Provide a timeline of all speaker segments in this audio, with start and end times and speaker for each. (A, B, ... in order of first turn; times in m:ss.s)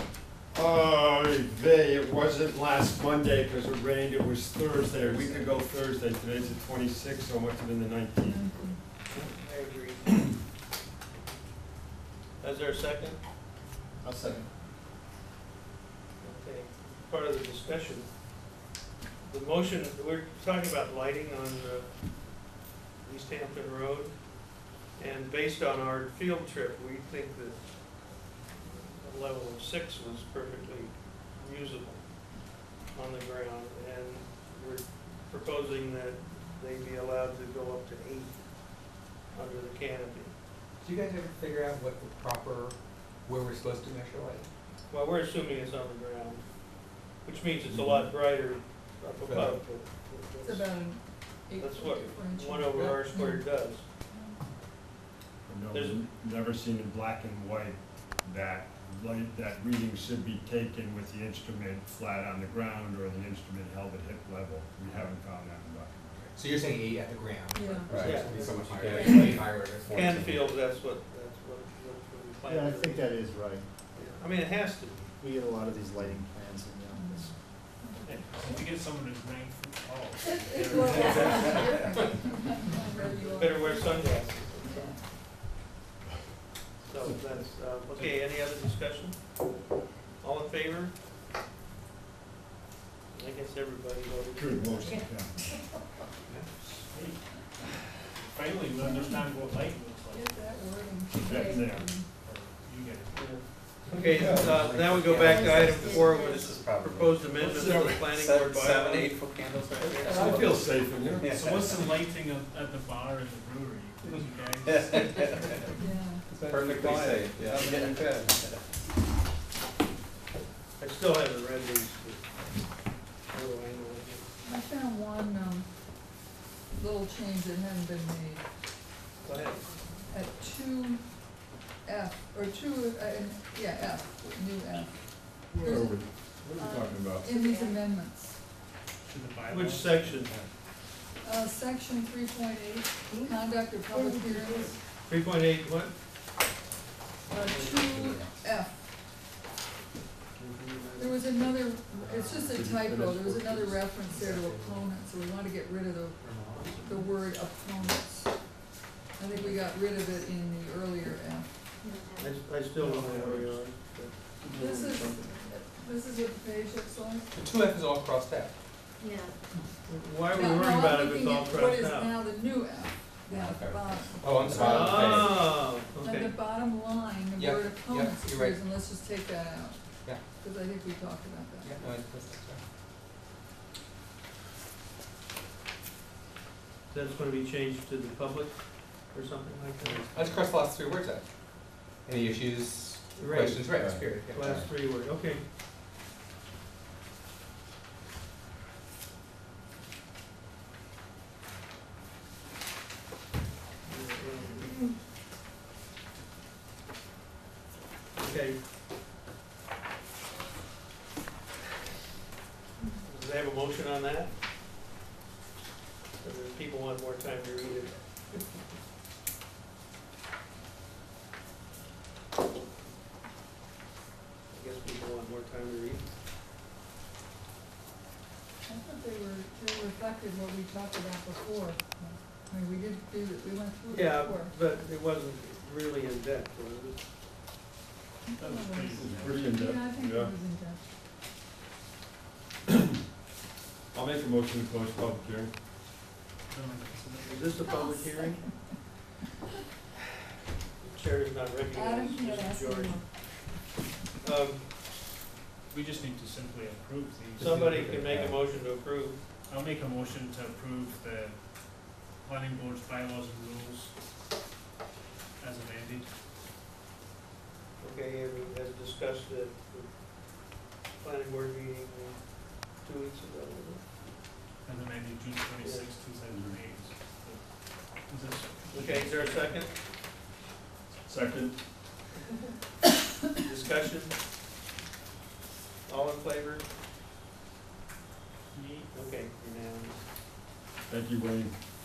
0:00.5-0:08.5 A
0:08.2-0:08.8 B
0:09.1-0:10.2 C
0:12.4-0:13.2 C
0:14.0-0:14.5 D
0:16.2-0:18.1 C
0:19.2-0:21.9 C
0:23.0-0:24.1 C
0:24.9-0:27.6 C
0:28.6-0:32.0 C
0:32.9-0:38.4 C
0:39.3-0:40.3 C
0:40.8-0:42.7 E
0:43.2-0:44.5 E
0:44.9-0:46.4 C
0:47.2-0:50.7 C
0:47.7-0:48.1 A
0:49.2-0:49.6 E
0:50.4-0:53.6 B
0:51.6-0:53.8 C
0:54.1-0:54.4 B
0:55.4-1:06.4 A
0:55.7-0:56.0 C
1:06.3-1:10.4 E
1:07.5-1:07.9 B
1:08.0-1:09.4 A
1:08.0-1:13.1 C
1:08.9-1:09.3 F
1:12.4-1:13.7 D
1:13.9-1:15.1 C
1:15.2-1:17.3 D
1:16.9-1:18.6 B
1:18.1-1:21.4 G
1:20.4-1:25.0 B
1:23.0-1:24.9 C
1:26.8-1:29.4 C
1:30.2-1:30.9 C
1:33.1-1:34.9 C
1:34.3-1:35.6 A
1:38.3-1:40.3 G
1:38.8-1:39.3 B
1:40.1-1:42.1 B
1:41.2-1:41.7 F
1:41.2-1:41.9 A
1:42.2-1:43.2 G
1:43.1-1:49.2 C
1:44.1-1:51.8 E
1:45.2-1:46.4 F
1:47.4-1:48.1 A
1:50.0-1:51.3 A
1:51.4-1:54.7 G
1:54.2-1:55.6 E
1:55.8-1:56.2 B
1:56.3-1:58.3 D
1:56.4-1:58.6 E
2:00.8-2:02.5 C
2:03.2-2:04.2 C
2:04.4-2:05.7 B
2:06.7-2:08.4 B
2:09.2-2:09.6 C
2:10.1-2:11.0 B
2:11.8-2:15.0 B
2:15.5-2:17.3 A
2:15.6-2:16.0 B
2:16.6-2:17.8 F
2:17.2-2:18.4 B
2:19.1-2:20.1 G
2:19.5-2:20.4 C
2:21.2-2:24.8 B
2:23.1-2:24.7 F
2:25.1-2:25.9 C
2:27.3-2:28.7 B
2:30.9-2:38.4 B
2:32.2-2:33.9 A
2:39.2-2:41.4 B
2:41.8-2:42.4 F
2:42.2-2:45.1 C
2:44.5-2:47.3 B
2:47.3-2:48.5 E
2:49.0-2:49.3 F
2:49.9-2:52.1 C
2:50.3-2:54.3 B
2:53.3-2:55.6 E
2:54.5-2:56.4 C
2:55.7-3:01.8 B
2:57.4-2:58.6 E
3:01.6-3:02.6 E
3:06.9-3:10.4 C
3:10.1-3:11.2 E
3:12.0-3:14.7 E
3:13.1-3:15.4 C
3:23.8-3:24.8 C
3:24.6-3:24.9 F
3:28.2-3:28.6 C
3:33.0-3:34.3 C
3:36.2-3:38.4 C
3:44.5-3:46.0 C
3:48.6-3:54.5 B
3:53.9-3:57.0 C
3:58.2-4:00.8 B
3:58.4-3:59.2 G
3:58.9-4:00.3 A
4:02.7-4:02.9 A
4:03.9-4:05.5 A
4:06.5-4:07.3 G
4:07.2-4:08.4 C
4:07.6-4:08.5 B
4:10.8-4:13.0 C
4:11.7-4:13.0 B
4:14.2-4:14.6 C
4:15.7-4:17.8 G
4:17.4-4:19.2 C
4:17.5-4:18.2 A
4:19.5-4:21.4 G
4:22.2-4:23.9 G
4:25.4-4:26.1 G
4:27.8-4:29.9 C
4:30.4-4:33.8 C
4:34.6-4:37.4 G
4:35.6-4:35.9 C
4:38.0-4:39.5 G
4:38.7-4:39.7 C
4:41.0-4:41.6 A
4:43.4-4:44.1 C
4:45.8-4:46.6 C
4:48.6-4:48.8 G
4:48.9-4:50.0 C
4:50.9-4:51.5 A